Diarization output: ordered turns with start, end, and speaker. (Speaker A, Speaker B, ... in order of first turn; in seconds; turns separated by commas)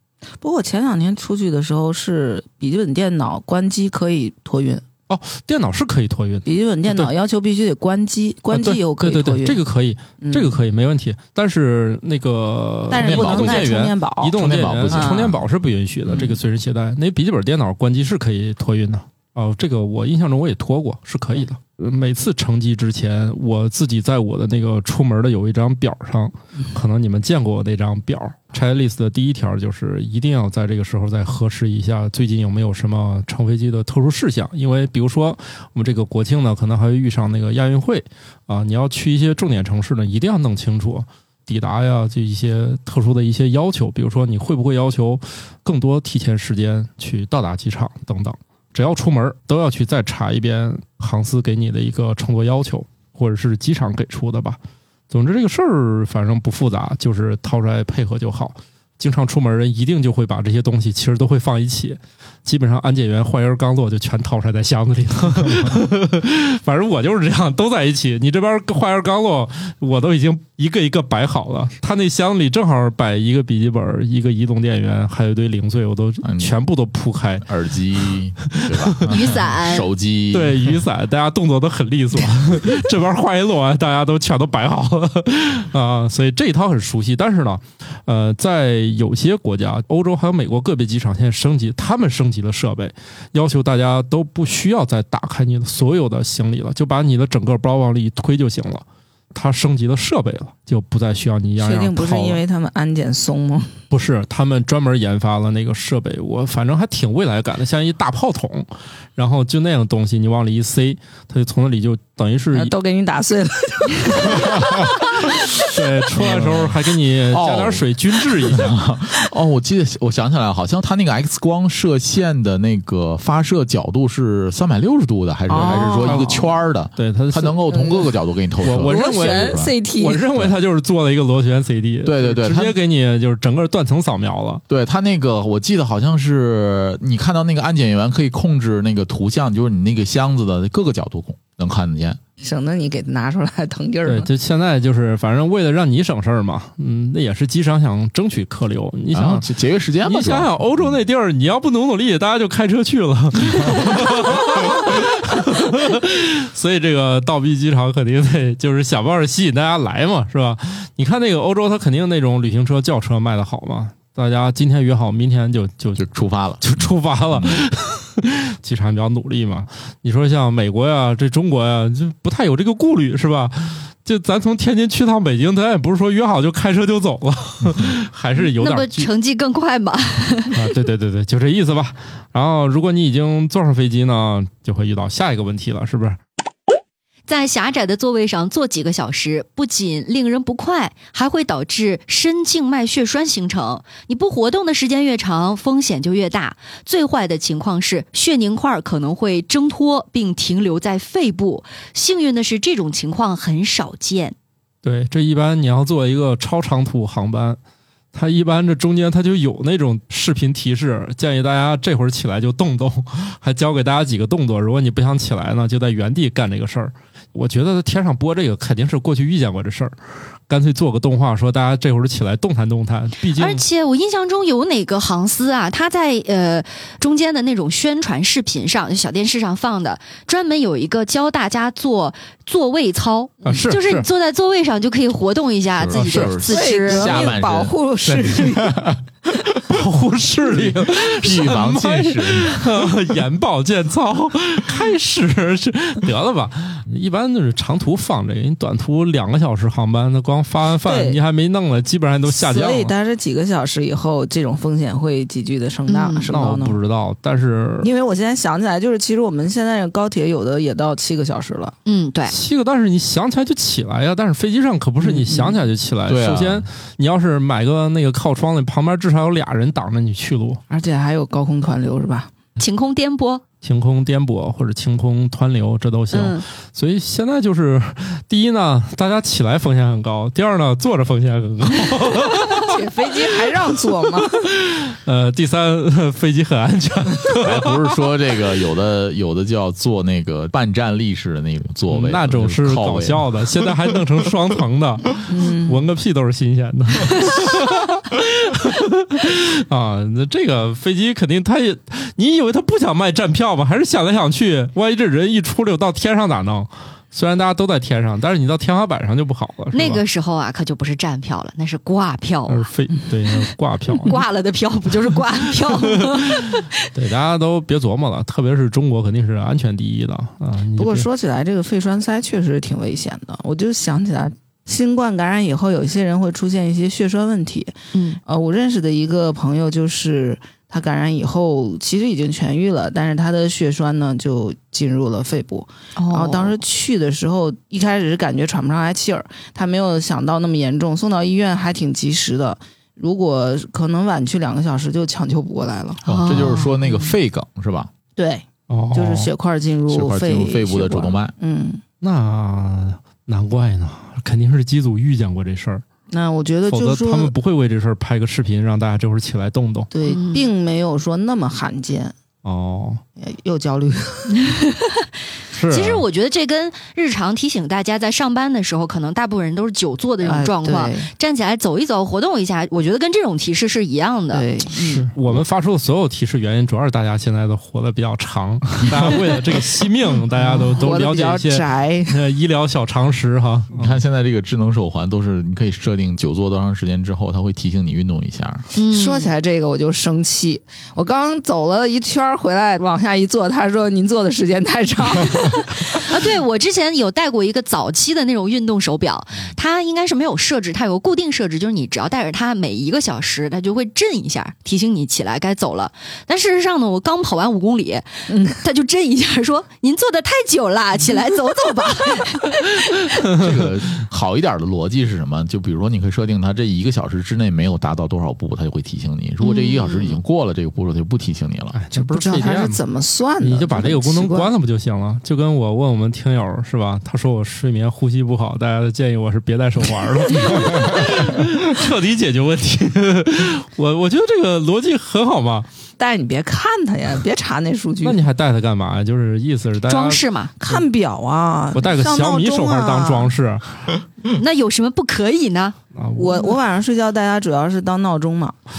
Speaker A: 0.4-4.8, Speaker B: 5.1-7.1, Speaker A: 6.5-9.6, Speaker B: 8.5-54.6, Speaker A: 10.2-10.6, Speaker A: 12.9-14.4, Speaker C: 13.0-13.8, Speaker C: 14.3-15.4, Speaker A: 14.9-15.3, Speaker B: 55.1-77.5, Speaker C: 76.2-76.5, Speaker C: 77.4-80.8, Speaker B: 78.6-79.2, Speaker D: 79.0-79.9, Speaker B: 80.3-102.4, Speaker A: 101.6-103.8, Speaker B: 103.9-112.7, Speaker A: 112.5-115.7, Speaker B: 115.6-118.8, Speaker C: 116.2-116.8, Speaker C: 117.3-117.9, Speaker C: 118.4-129.7, Speaker A: 125.5-126.4, Speaker B: 125.5-127.6, Speaker A: 127.7-128.1, Speaker B: 128.6-134.6, Speaker A: 128.7-130.2, Speaker C: 132.0-132.8, Speaker C: 134.7-142.2, Speaker A: 142.4-144.3, Speaker B: 144.1-149.5, Speaker C: 149.1-150.9, Speaker B: 150.0-166.0, Speaker C: 166.0-167.6, Speaker B: 166.6-179.1, Speaker D: 178.4-180.6, Speaker B: 180.5-186.2, Speaker D: 187.3-204.4, Speaker B: 204.8-207.6, Speaker B: 208.1-219.9, Speaker B: 220.5-223.6, Speaker D: 223.4-237.3, Speaker B: 233.5-234.1, Speaker C: 235.8-239.0, Speaker B: 236.0-236.3, Speaker A: 236.4-238.9, Speaker B: 239.7-252.9, Speaker C: 240.8-242.9, Speaker A: 250.8-251.2, Speaker A: 252.3-256.8, Speaker D: 255.9-256.3, Speaker B: 256.3-257.9, Speaker A: 257.8-261.8, Speaker D: 261.9-262.4, Speaker B: 262.3-270.6, Speaker A: 265.0-265.6, Speaker C: 266.1-266.7, Speaker A: 270.7-272.3, Speaker D: 272.6-273.4, Speaker B: 273.6-282.8, Speaker D: 276.1-276.5, Speaker A: 282.4-284.5, Speaker B: 284.4-287.9, Speaker C: 287.4-293.3, Speaker B: 291.9-310.0, Speaker A: 295.3-295.8, Speaker D: 309.7-312.7, Speaker B: 312.5-314.2, Speaker D: 314.0-316.8, Speaker B: 315.8-321.1, Speaker A: 320.8-327.7, Speaker D: 327.9-328.2, Speaker A: 328.2-346.0, Speaker D: 336.0-336.5, Speaker D: 346.1-346.7, Speaker C: 346.1-347.9, Speaker A: 346.8-347.1, Speaker A: 348.2-351.8, Speaker B: 348.7-349.3, Speaker C: 349.9-351.3, Speaker B: 352.0-355.8, Speaker A: 356.1-357.3, Speaker B: 356.7-359.9, Speaker A: 359.9-362.1, Speaker D: 360.1-360.5, Speaker B: 362.4-363.0, Speaker A: 363.2-364.4, Speaker D: 364.4-365.1, Speaker B: 365.5-366.0, Speaker D: 365.7-374.4, Speaker A: 370.2-371.1, Speaker A: 374.3-375.1, Speaker B: 374.8-384.0, Speaker A: 380.3-382.2, Speaker C: 383.7-388.7, Speaker D: 388.8-389.3, Speaker A: 388.9-396.0, Speaker D: 395.9-413.0, Speaker A: 408.3-408.6, Speaker B: 413.3-413.5, Speaker C: 413.3-421.8, Speaker D: 419.4-420.2, Speaker B: 421.7-422.8, Speaker A: 421.9-424.5, Speaker B: 423.4-435.7, Speaker A: 436.0-438.2, Speaker B: 438.0-440.8, Speaker D: 439.9-440.5, Speaker A: 440.6-443.3, Speaker B: 441.7-443.8, Speaker D: 444.3-445.8, Speaker B: 445.9-446.6, Speaker A: 446.2-448.6